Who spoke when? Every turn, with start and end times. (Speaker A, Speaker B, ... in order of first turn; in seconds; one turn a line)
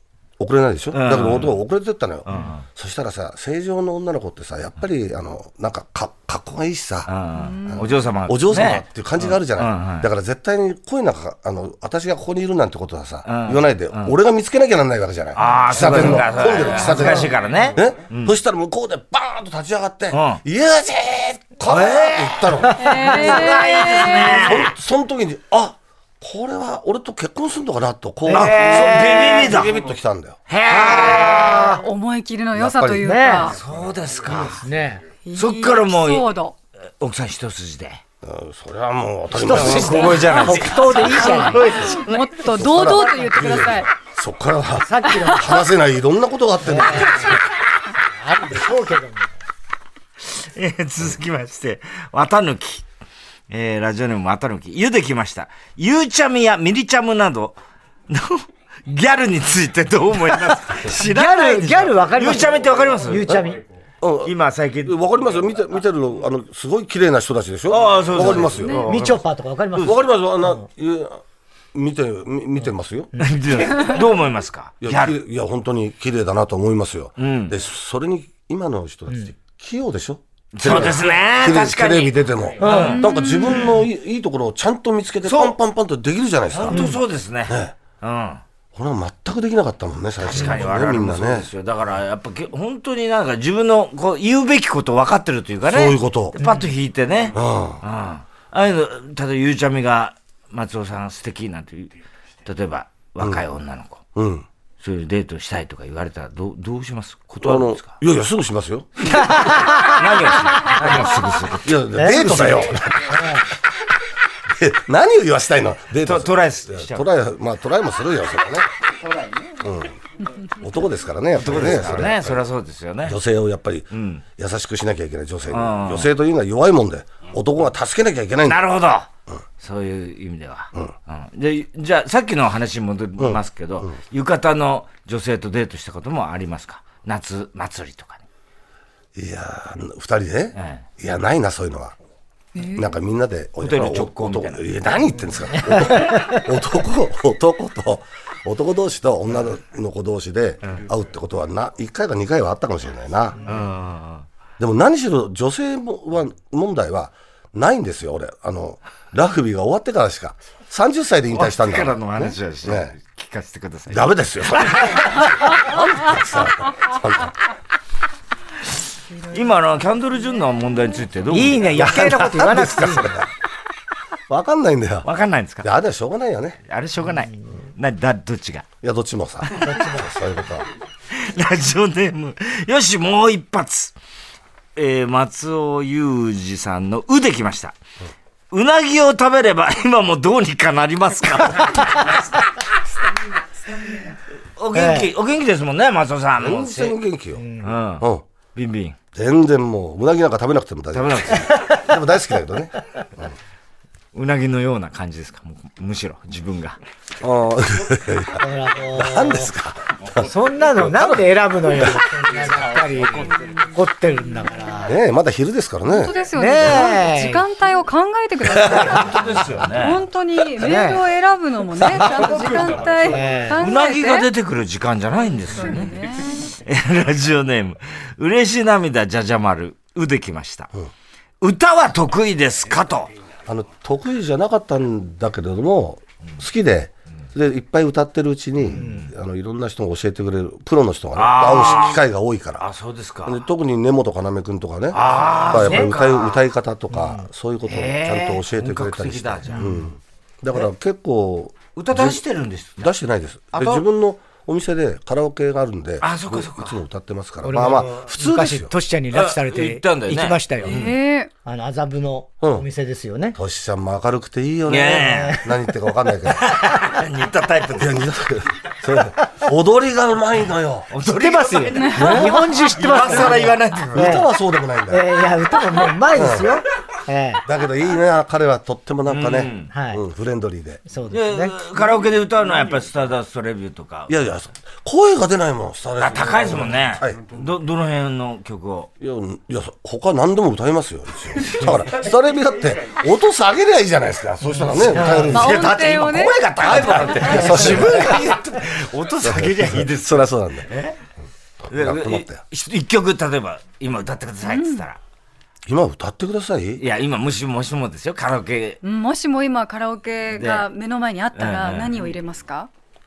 Speaker A: 0.4-7.1
Speaker B: 0.9-1.6
Speaker B: 2.3-2.6
Speaker B: 7.1-10.1
Speaker C: 7.3-8.0
Speaker A: 7.7-23.1
Speaker B: 13.2-14.1
Speaker B: 15.3-18.4
Speaker B: 20.1-20.4
Speaker B: 21.6-24.7
Speaker C: 22.8-24.5
Speaker A: 24.4-30.4
Speaker D: 28.2-29.2
Speaker B: 28.3-29.8
Speaker B: 30.5-31.8
Speaker D: 30.7-31.8
Speaker C: 31.1-33.6
Speaker A: 32.5-33.1
Speaker D: 33.0-33.5
Speaker B: 33.4-34.6
Speaker D: 34.3-35.0
Speaker C: 35.2-36.5
Speaker B: 35.3-36.3
Speaker B: 37.0-38.0
Speaker A: 38.2-40.4
Speaker D: 39.3-41.8
Speaker B: 39.4-42.3
Speaker C: 40.4-43.9
Speaker A: 42.5-47.4
Speaker D: 44.8-45.5
Speaker C: 45.1-45.5
Speaker D: 46.6-47.4
Speaker D: 48.1-49.3
Speaker B: 50.3-52.8
Speaker B: 53.5-57.6
Speaker B: 58.1-63.5
Speaker D: 60.9-63.6
Speaker A: 64.0-68.8
Speaker B: 64.2-65.0
Speaker B: 67.7-69.2
Speaker C: 68.5-68.8
Speaker D: 68.8-70.7
Speaker A: 69.7-71.2
Speaker A: 71.7-73.1
Speaker B: 73.2-75.1
Speaker A: 74.8-87.7
Speaker B: 77.2-77.5
Speaker B: 80.5-83.8
Speaker D: 82.6-83.0
Speaker C: 82.7-83.8
Speaker B: 85.2-85.5
Speaker B: 86.5-88.4
Speaker D: 86.7-87.0
Speaker A: 88.7-91.5
Speaker B: 90.3-101.9
Speaker A: 95.7-96.4
Speaker A: 97.3-97.8
Speaker B: 102.4-104.0
Speaker A: 104.2-104.5
Speaker B: 104.8-108.0
Speaker A: 107.4-109.2
Speaker D: 109.1-110.0
Speaker B: 109.1-111.8
Speaker A: 111.6-113.4
Speaker D: 111.9-113.5
Speaker A: 114.5-118.7
Speaker B: 116.0-117.0
Speaker A: 119.6-120.0
Speaker A: 120.5-122.4
Speaker B: 121.4-123.2
Speaker A: 123.0-128.6
Speaker B: 123.9-124.2
Speaker B: 125.5-126.1
Speaker B: 128.4-129.1
Speaker B: 129.6-138.2
Speaker A: 133.2-133.9
Speaker A: 139.1-141.9
Speaker B: 140.6-140.8
Speaker C: 142.5-143.0
Speaker A: 142.7-153.4
Speaker B: 143.6-144.7
Speaker D: 145.5-146.4
Speaker B: 153.4-154.2
Speaker A: 154.6-162.9
Speaker B: 161.3-165.2
Speaker A: 163.9-167.3
Speaker B: 169.3-172.2
Speaker D: 171.3-173.2
Speaker A: 171.8-173.3
Speaker A: 174.3-175.1
Speaker B: 175.0-175.7
Speaker A: 175.6-176.6
Speaker B: 176.7-178.7
Speaker A: 178.8-180.7
Speaker B: 179.4-179.9
Speaker D: 179.6-180.1
Speaker B: 181.1-183.9
Speaker B: 184.8-187.8
Speaker B: 188.5-192.5
Speaker B: 194.6-197.0
Speaker D: 194.7-195.1
Speaker A: 196.4-197.4
Speaker D: 197.4-197.7
Speaker B: 197.6-199.0
Speaker A: 199.1-203.3
Speaker B: 200.9-201.6
Speaker B: 204.1-206.8
Speaker A: 207.2-210.2
Speaker D: 208.4-209.5
Speaker D: 210.2-214.9
Speaker A: 214.8-216.8
Speaker C: 215.8-224.3
Speaker D: 216.3-217.4
Speaker A: 218.5-218.9
Speaker B: 218.7-220.0
Speaker D: 220.6-221.0
Speaker B: 222.0-222.5
Speaker D: 223.1-223.6
Speaker B: 223.6-230.7
Speaker C: 225.6-226.5
Speaker B: 231.4-233.1
Speaker A: 233.5-242.6
Speaker D: 238.7-239.1
Speaker B: 241.1-242.0
Speaker B: 242.6-243.4
Speaker A: 243.2-252.2
Speaker B: 244.9-246.4
Speaker D: 246.9-247.2
Speaker B: 247.6-249.8
Speaker D: 249.5-249.8
Speaker B: 251.7-252.9
Speaker A: 252.8-258.7
Speaker B: 253.5-253.8
Speaker B: 256.0-256.8
Speaker D: 257.4-260.8
Speaker B: 259.1-261.0
Speaker C: 260.6-261.3
Speaker D: 261.4-263.4
Speaker A: 262.4-262.6
Speaker A: 263.3-266.5
Speaker B: 264.7-265.4
Speaker D: 265.1-265.5
Speaker B: 266.3-268.0
Speaker A: 267.8-270.9
Speaker B: 270.9-274.2
Speaker D: 271.0-274.2
Speaker C: 271.8-272.6
Speaker A: 271.9-273.3
Speaker A: 273.9-275.1
Speaker D: 274.9-277.4
Speaker A: 276.1-276.6
Speaker A: 277.4-280.8
Speaker B: 279.1-279.7
Speaker D: 279.7-280.0
Speaker D: 280.9-281.5
Speaker B: 281.1-284.1
Speaker A: 284.1-287.4
Speaker B: 286.0-288.9
Speaker A: 289.0-295.6
Speaker B: 294.7-301.0
Speaker D: 294.8-295.3
Speaker C: 295.2-297.7
Speaker A: 296.5-298.3
Speaker A: 299.2-300.7
Speaker A: 301.6-302.4
Speaker B: 301.7-305.0
Speaker C: 304.4-304.8
Speaker A: 305.7-306.8
Speaker B: 306.8-308.8
Speaker C: 308.8-312.7
Speaker B: 310.3-310.7
Speaker B: 311.3-312.0